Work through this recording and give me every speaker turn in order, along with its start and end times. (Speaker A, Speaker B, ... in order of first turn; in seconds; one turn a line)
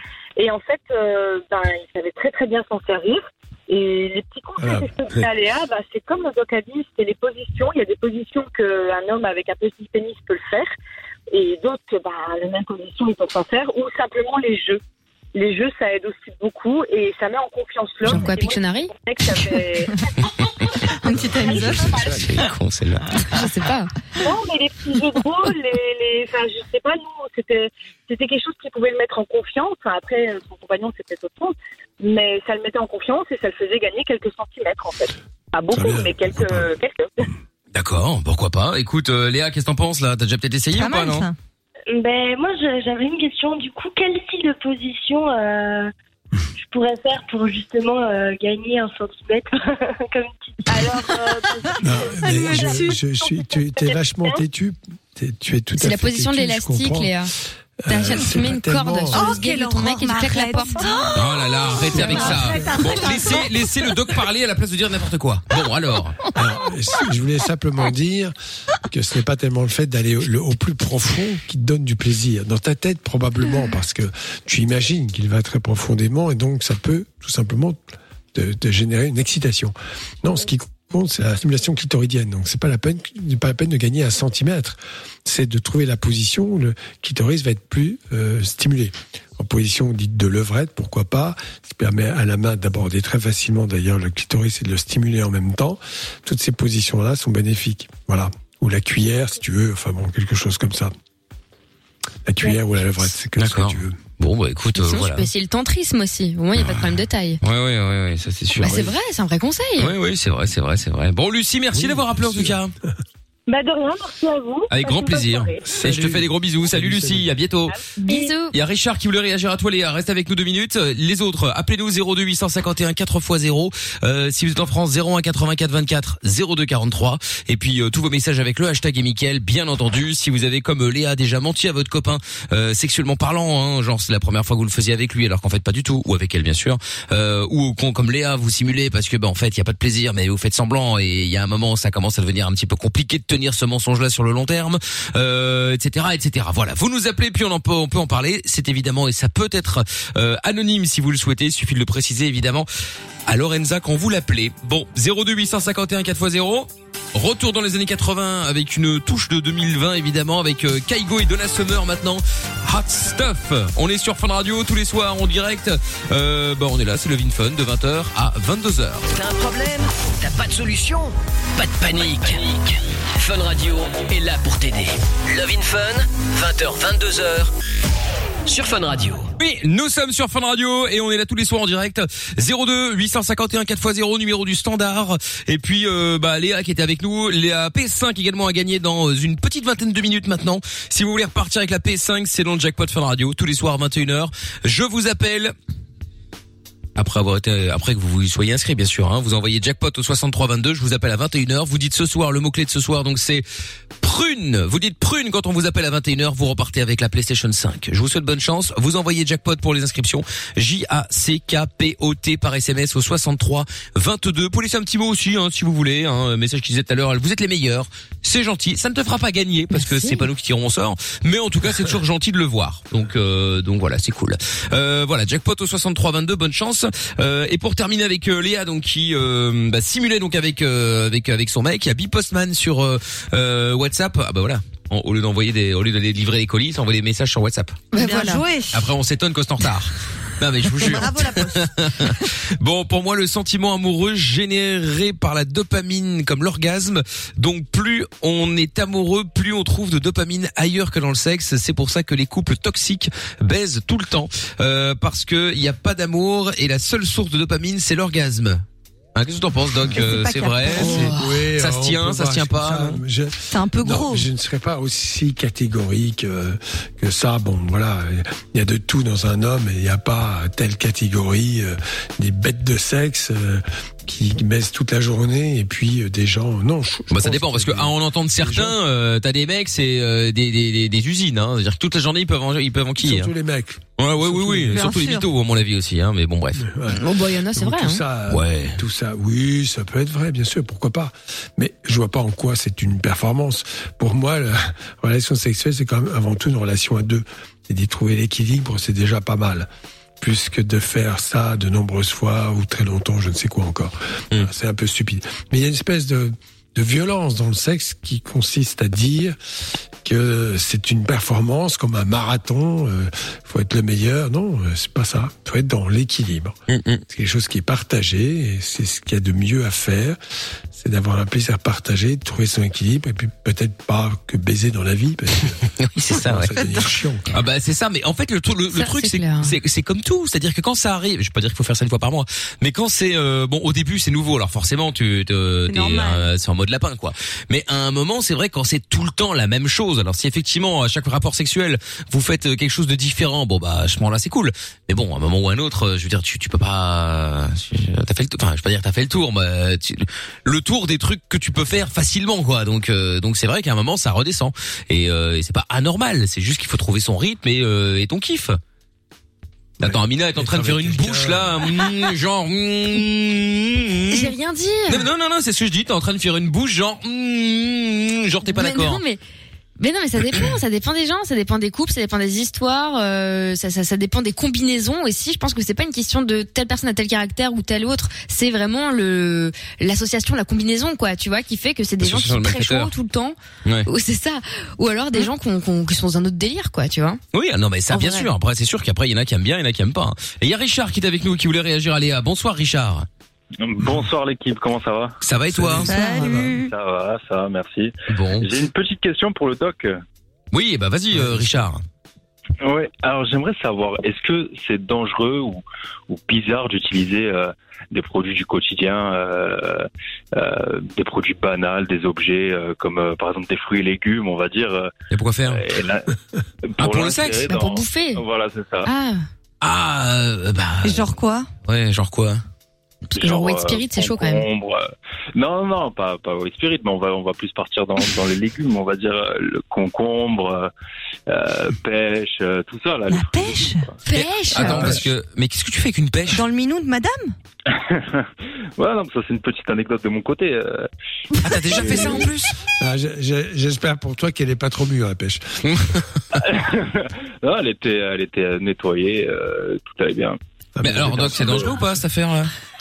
Speaker A: 0.3-10.7
Speaker B: 4.6-5.2
Speaker A: 11.3-14.8
Speaker A: 15.3-20.1
Speaker C: 18.1-18.9
Speaker D: 21.0-22.1
Speaker B: 21.2-22.0
Speaker A: 21.4-22.2
Speaker E: 21.6-23.2
Speaker C: 23.3-23.9
Speaker A: 24.2-37.3
Speaker B: 35.7-36.7
Speaker E: 37.7-41.2
Speaker D: 40.7-41.3
Speaker F: 41.9-45.9
Speaker F: 46.6-51.2
Speaker A: 50.7-54.4
Speaker B: 51.8-57.2
Speaker D: 52.2-52.9
Speaker C: 55.8-57.3
Speaker B: 57.8-59.4
Speaker C: 57.9-61.1
Speaker D: 59.1-63.8
Speaker E: 61.1-66.2
Speaker B: 61.9-62.7
Speaker B: 66.3-68.3
Speaker B: 68.9-77.8
Speaker B: 78.3-100.9
Speaker B: 102.2-104.0
Speaker E: 103.4-105.3
Speaker C: 104.8-107.4
Speaker E: 106.5-108.9
Speaker C: 108.6-109.9
Speaker E: 109.8-112.7
Speaker B: 111.7-112.6
Speaker A: 113.5-115.6
Speaker E: 114.7-117.8
Speaker B: 115.6-117.3
Speaker A: 117.7-118.3
Speaker C: 118.0-118.5
Speaker E: 118.5-152.7
Speaker E: 153.3-169.1
Speaker G: 169.1-177.5
Speaker G: 178.4-179.3
Speaker E: 179.4-195.5
Speaker E: 196.9-203.4
Speaker E: 204.0-237.8
Speaker C: 219.8-220.2
Speaker C: 237.9-238.4
Speaker D: 237.9-238.9
Speaker E: 238.7-258.6
Speaker D: 240.7-242.2
Speaker E: 259.1-263.0
Speaker D: 259.9-261.0
Speaker B: 260.7-278.8
Speaker C: 260.8-261.4
Speaker D: 263.5-264.3
Speaker E: 277.1-283.3
Speaker B: 283.0-284.9
Speaker E: 284.0-286.7
Speaker D: 284.7-285.2
Speaker B: 286.6-299.7
Speaker C: 286.9-288.0
Speaker E: 288.3-288.8
Speaker B: 300.2-309.4
Speaker B: 310.0-316.5
Speaker E: 316.7-317.0
Speaker B: 317.1-320.2
Speaker B: 320.7-325.6
Speaker E: 325.8-358.6
Speaker B: 326.1-327.3
Speaker C: 328.7-329.5
Speaker D: 335.7-336.3
Speaker B: 359.8-361.9
Speaker E: 359.8-364.3
Speaker C: 364.1-365.1
Speaker E: 364.9-369.0
Speaker C: 368.5-369.2
Speaker C: 369.8-387.2
Speaker E: 382.0-382.9
Speaker E: 387.3-393.1
Speaker C: 387.9-388.3
Speaker H: 393.6-395.2
Speaker E: 395.2-395.9
Speaker B: 395.5-396.6
Speaker D: 395.9-396.7
Speaker H: 396.5-400.0
Speaker E: 398.1-398.6
Speaker E: 400.5-401.8
Speaker B: 401.1-401.5
Speaker H: 402.6-414.9
Speaker E: 415.1-415.6
Speaker H: 415.4-416.1
Speaker H: 416.7-418.9
Speaker E: 416.8-417.4
Speaker C: 417.5-418.2
Speaker C: 418.8-419.2
Speaker E: 419.6-421.1
Speaker D: 420.8-421.5
Speaker E: 421.7-422.4
Speaker C: 423.1-424.5
Speaker H: 423.1-430.7
Speaker H: 431.3-434.0
Speaker D: 433.1-433.9
Speaker C: 434.1-434.9
Speaker E: 434.1-436.4
Speaker B: 434.6-435.0
Speaker D: 436.3-437.3
Speaker H: 437.7-440.9
Speaker E: 441.4-442.5
Speaker B: 442.8-445.6
Speaker E: 445.6-446.0
Speaker H: 446.4-450.4
Speaker B: 450.8-451.8
Speaker E: 450.8-452.5